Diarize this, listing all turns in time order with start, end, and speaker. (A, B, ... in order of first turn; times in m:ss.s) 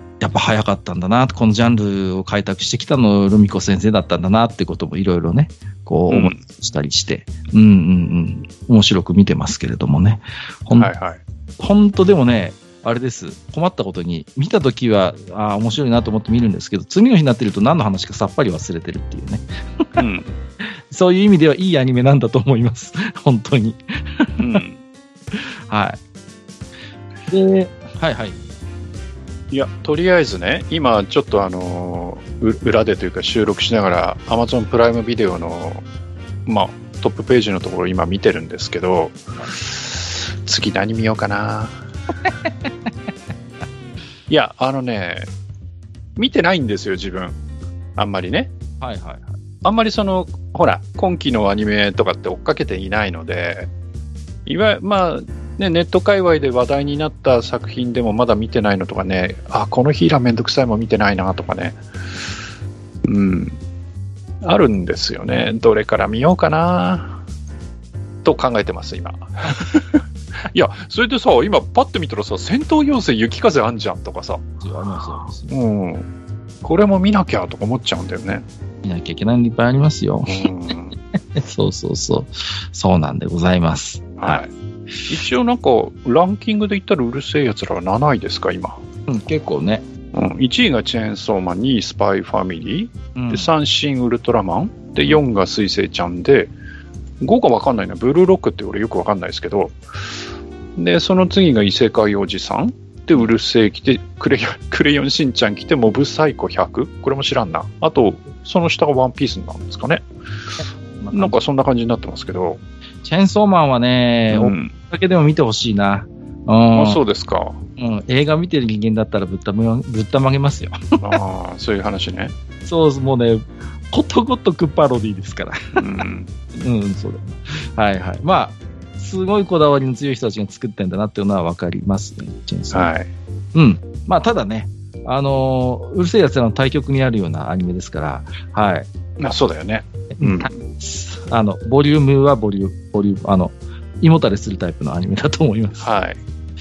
0:00.2-0:10.9 A
0:06.1-0:06.4 B
0:10.7-0:11.2 B
0:11.6-0:19.9 A
0:20.0-0:20.3 B
0:20.6-0:24.6 A
0:24.4-0:24.8 B
0:25.3-0:26.0 A
0:27.3-0:28.4 A
0:29.5-0:35.8 B
0:36.5-0:41.8 B
0:42.2-0:42.9 A
0:44.3-0:45.3 B
0:46.2-0:47.4 B
0:48.0-0:48.5 B
0:48.8-0:49.4 A
0:49.6-0:53.7 B
0:54.5-1:01.8 B
1:03.1-1:03.6 B
1:04.4-1:07.2 B
1:08.2-1:14.4 B
1:14.6-1:15.5 A
1:15.5-1:16.1 B
1:16.6-1:18.4 B
1:18.8-1:20.5 A
1:20.3-1:21.0 B
1:21.1-1:24.4 A
1:24.2-1:24.5 B
1:25.1-1:28.8 B
1:29.1-1:29.8 A
1:30.1-1:36.5 B
1:33.1-1:33.5 A
1:37.2-1:39.8 B
1:40.8-1:50.0 B
1:51.0-1:51.4 A
1:51.1-1:52.6 B
1:53.0-1:57.0 A
1:54.3-1:54.7 B
1:56.7-1:57.6 B
1:57.8-2:01.2 A
2:01.0-2:02.3 B
2:02.6-2:05.8 A
2:05.8-2:06.3 B
2:06.5-2:12.9 A
2:12.7-2:13.1 B
2:13.5-2:18.9 A
2:19.2-2:20.5 B
2:20.2-2:25.9 A
2:25.8-2:26.2 B